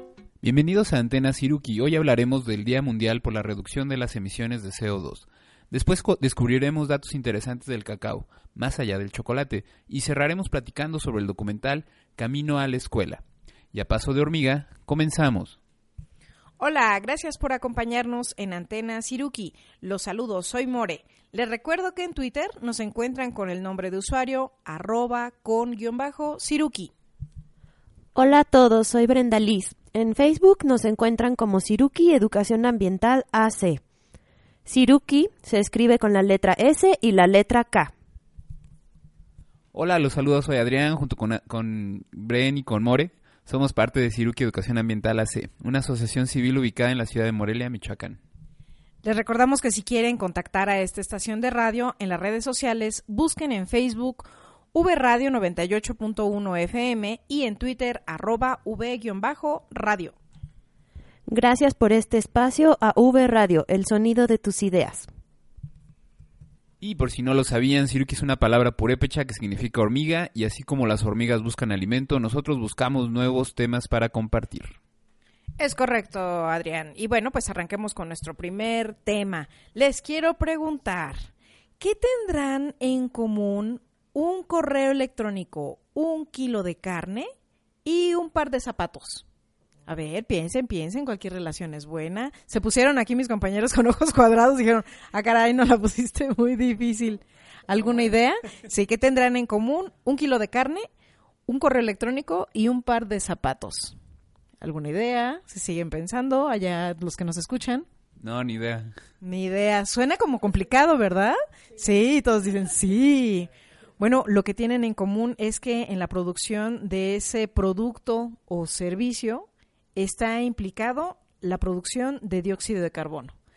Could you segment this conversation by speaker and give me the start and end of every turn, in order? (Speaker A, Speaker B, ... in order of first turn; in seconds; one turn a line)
Speaker A: 0.4-15.6
Speaker B: 16.6-26.9
Speaker C: 28.1-33.8
Speaker C: 34.6-37.9
Speaker A: 39.7-48.2
Speaker B: 49.0-60.1
Speaker C: 61.3-65.1
Speaker A: 66.8-74.7
Speaker B: 75.6-81.3
Speaker B: 81.8-87.3
Speaker B: 87.8-89.2
Speaker B: 89.9-100.9
Speaker B: 101.5-104.0
Speaker B: 104.6-107.8
Speaker A: 108.2-108.9
Speaker B: 109.2-123.3